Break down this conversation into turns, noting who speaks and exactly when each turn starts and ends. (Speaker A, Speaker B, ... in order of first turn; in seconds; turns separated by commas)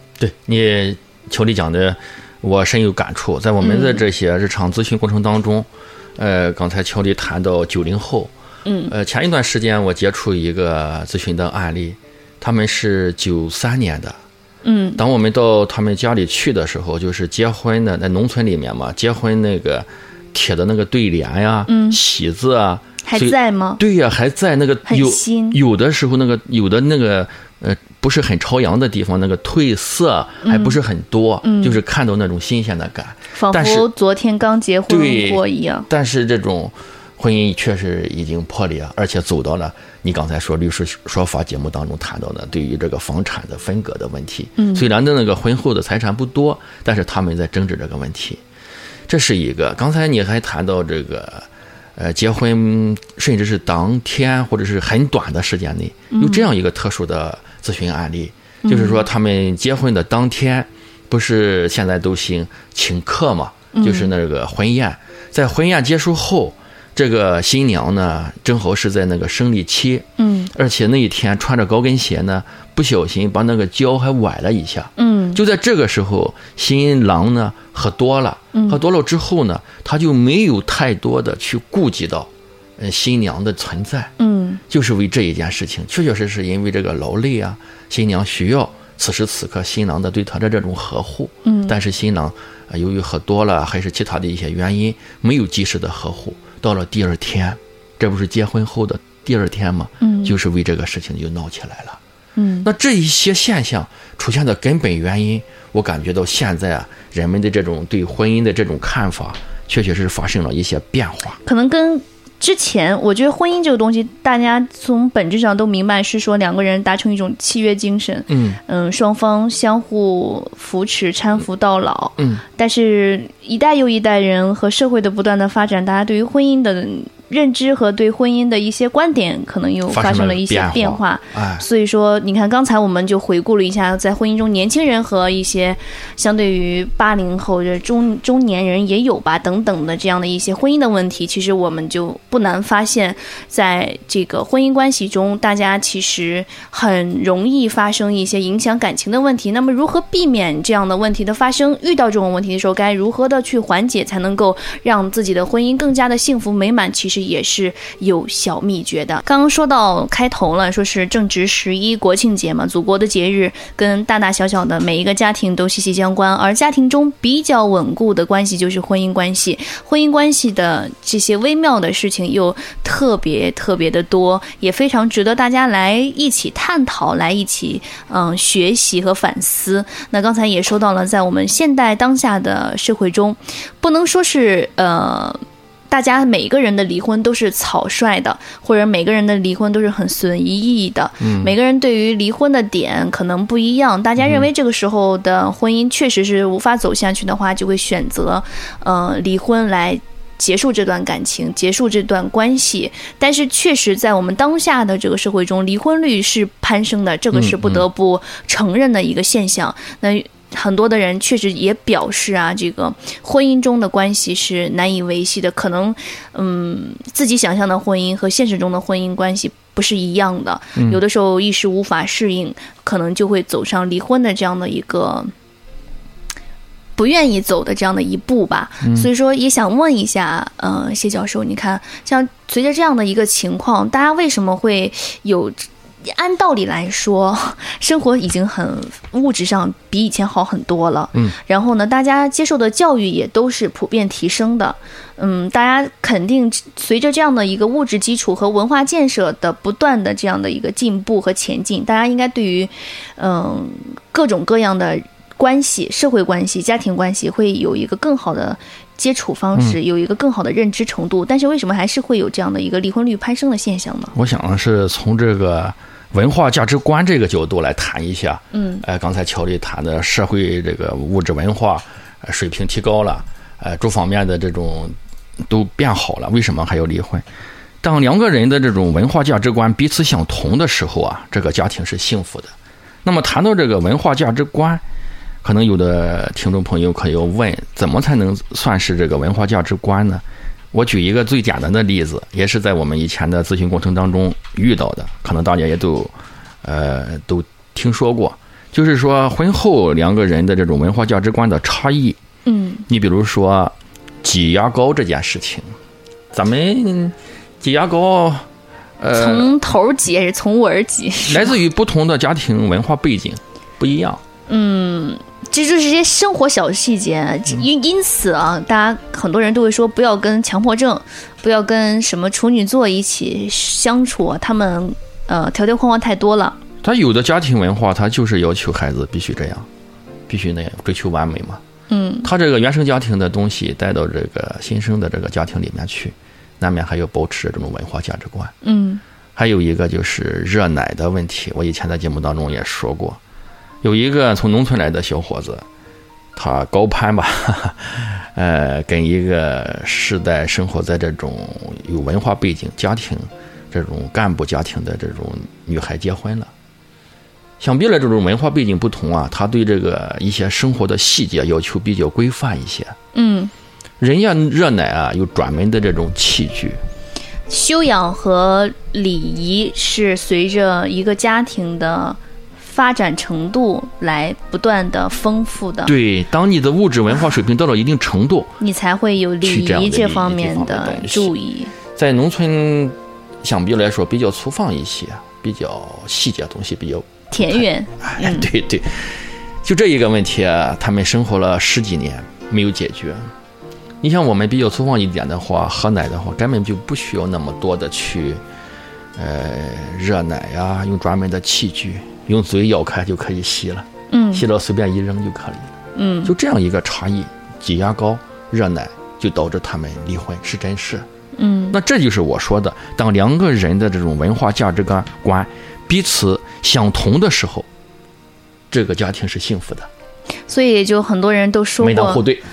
Speaker A: 0.2-8.3, Speaker B: 3.6-4.0, Speaker B: 8.6-8.9, Speaker A: 8.9-14.2, Speaker B: 14.6-15.0, Speaker A: 15.0-33.9, Speaker B: 21.7-22.0, Speaker B: 23.0-23.8, Speaker B: 24.9-25.6, Speaker B: 30.4-30.8, Speaker B: 31.4-31.8, Speaker B: 33.3-35.9, Speaker A: 34.9-48.4, Speaker B: 44.6-44.9, Speaker A: 49.1-84.1, Speaker B: 56.1-56.5, Speaker B: 58.6-59.0, Speaker B: 63.7-64.1, Speaker B: 70.2-70.5, Speaker B: 75.0-75.4, Speaker B: 78.5-78.8, Speaker B: 84.2-84.6, Speaker A: 84.7-102.0, Speaker B: 91.4-91.8, Speaker B: 100.0-100.3, Speaker B: 102.4-102.7, Speaker A: 102.6-111.4, Speaker B: 111.4-225.3, Speaker A: 118.3-118.6, Speaker A: 122.2-122.4, Speaker A: 129.9-131.6, Speaker A: 191.2-191.5, Speaker A: 194.2-194.5, Speaker A: 207.3-207.8, Speaker B: 227.0-264.1, Speaker A: 228.8-229.1, Speaker A: 264.1-277.2, Speaker B: 268.5-268.8, Speaker A: 277.8-282.5, Speaker A: 283.0-284.8, Speaker A: 285.4-302.2, Speaker B: 302.5-302.9, Speaker A: 302.9-305.7, Speaker A: 306.3-308.5, Speaker A: 309.0-309.5, Speaker B: 309.1-311.6, Speaker A: 311.2-314.2, Speaker B: 314.5-326.6, Speaker A: 326.8-329.7, Speaker A: 330.3-331.6, Speaker B: 331.9-332.3, Speaker A: 332.2-338.5, Speaker B: 338.6-339.0, Speaker A: 339.4-343.2, Speaker A: 343.8-345.6, Speaker A: 346.4-356.5, Speaker A: 357.6-363.0, Speaker B: 363.1-363.5, Speaker A: 364.0-366.8, Speaker B: 367.5-375.9, Speaker A: 375.9-378.5, Speaker B: 378.6-381.7, Speaker A: 379.4-381.3, Speaker A: 381.9-393.3, Speaker B: 387.3-388.5, Speaker A: 394.0-398.4, Speaker A: 399.1-405.7, Speaker B: 404.1-404.4, Speaker B: 405.9-406.3, Speaker A: 406.2-411.1, Speaker B: 411.4-411.8, Speaker A: 411.7-417.7, Speaker A: 418.7-419.9, Speaker B: 420.5-422.2, Speaker A: 421.8-422.4